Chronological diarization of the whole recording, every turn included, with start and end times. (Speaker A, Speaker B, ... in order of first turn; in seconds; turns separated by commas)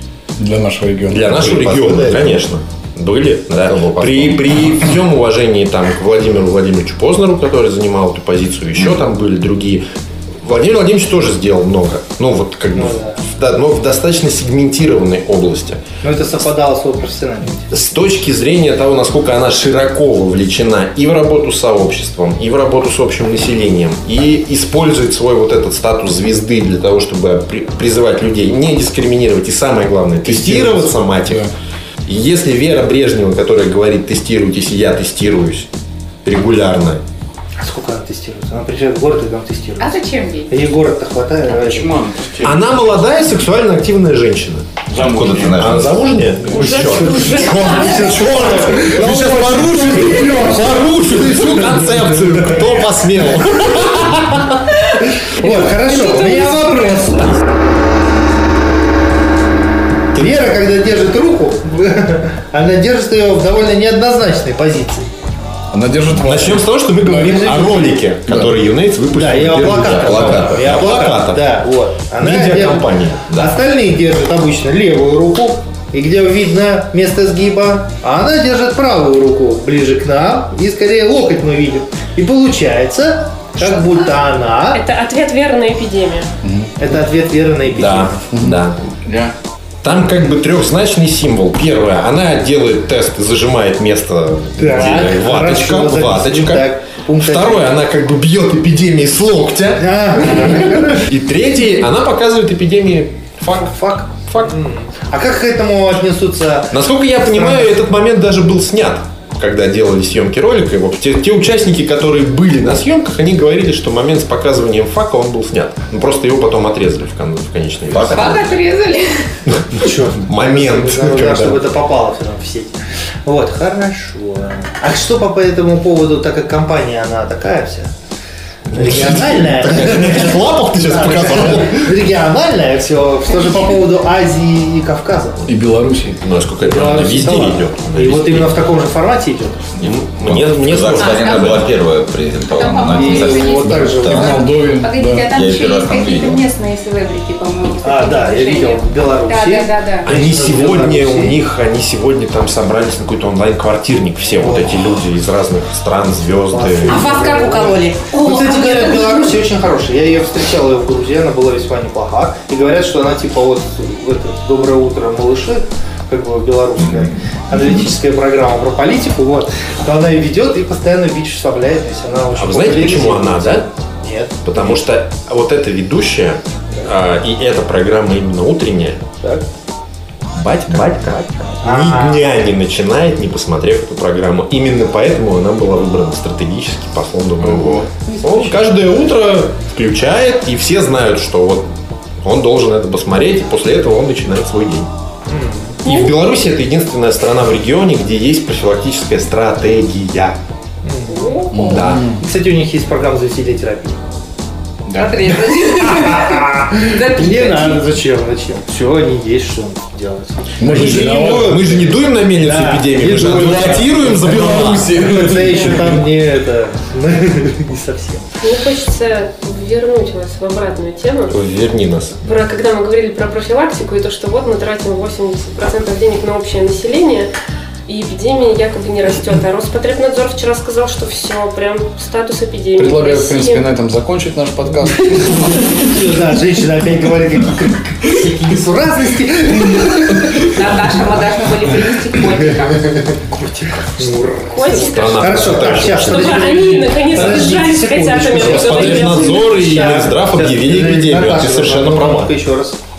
Speaker A: 0.4-1.4, Speaker B: 1.1-9.8, Speaker C: 1.4-2.4, Speaker C: 3.5-4.7, Speaker B: 10.4-15.8, Speaker D: 12.7-13.2, Speaker D: 16.0-17.7, Speaker B: 17.7-31.5, Speaker A: 30.2-31.5, Speaker B: 32.1-35.7, Speaker B: 36.2-37.0, Speaker D: 37.6-39.9, Speaker E: 39.8-40.5, Speaker D: 40.5-41.9, Speaker F: 41.5-42.9, Speaker B: 42.4-44.7, Speaker F: 44.9-45.8, Speaker C: 45.0-46.0, Speaker B: 45.2-54.6, Speaker G: 46.5-48.0, Speaker D: 46.6-51.8, Speaker D: 55.2-57.4, Speaker G: 55.8-57.1, Speaker D: 60.1-65.1, Speaker A: 65.7-67.5, Speaker B: 66.1-71.6, Speaker D: 67.2-67.9, Speaker D: 69.1-84.8, Speaker B: 72.2-73.3, Speaker G: 84.7-86.3, Speaker A: 86.4-86.7, Speaker D: 86.8-88.3, Speaker B: 87.8-88.8, Speaker A: 88.3-88.6, Speaker F: 88.9-89.3, Speaker B: 89.8-104.6, Speaker D: 94.6-97.8, Speaker D: 99.8-101.1, Speaker D: 103.6-107.8, Speaker B: 106.7-118.6, Speaker C: 117.9-118.5, Speaker E: 118.1-119.3, Speaker B: 119.5-121.6, Speaker D: 119.7-127.9, Speaker B: 128.7-131.9, Speaker D: 128.7-135.4, Speaker A: 135.5-136.2, Speaker B: 136.2-138.7, Speaker D: 136.6-139.6, Speaker B: 139.8-141.7, Speaker C: 139.8-144.5, Speaker E: 141.0-141.6, Speaker E: 142.5-150.1, Speaker D: 142.9-144.4, Speaker A: 143.6-145.3, Speaker C: 145.2-146.5, Speaker D: 147.8-151.4, Speaker B: 150.1-157.1, Speaker D: 154.2-154.9, Speaker D: 156.5-174.7, Speaker E: 156.9-159.3, Speaker C: 166.8-167.8, Speaker B: 172.3-173.7, Speaker B: 174.4-179.0, Speaker D: 179.2-179.5, Speaker B: 180.3-191.7, Speaker D: 181.6-182.3, Speaker F: 187.4-187.9, Speaker B: 192.2-194.9, Speaker D: 195.3-195.8, Speaker B: 195.8-200.4, Speaker G: 195.8-196.2, Speaker D: 200.8-204.0, Speaker G: 201.1-201.7, Speaker A: 201.5-202.2, Speaker B: 201.7-202.2, Speaker F: 204.9-205.2, Speaker E: 205.0-207.9, Speaker D: 205.8-218.3, Speaker A: 210.6-211.6, Speaker B: 211.2-215.0, Speaker A: 213.3-216.1, Speaker G: 218.4-221.3, Speaker B: 221.3-222.2, Speaker G: 222.2-227.3, Speaker G: 227.9-233.7, Speaker A: 232.8-235.5, Speaker D: 235.4-240.6, Speaker E: 240.3-243.0, Speaker B: 243.3-243.9, Speaker D: 244.0-252.8, Speaker G: 244.5-249.8, Speaker B: 244.6-247.4, Speaker B: 248.3-252.3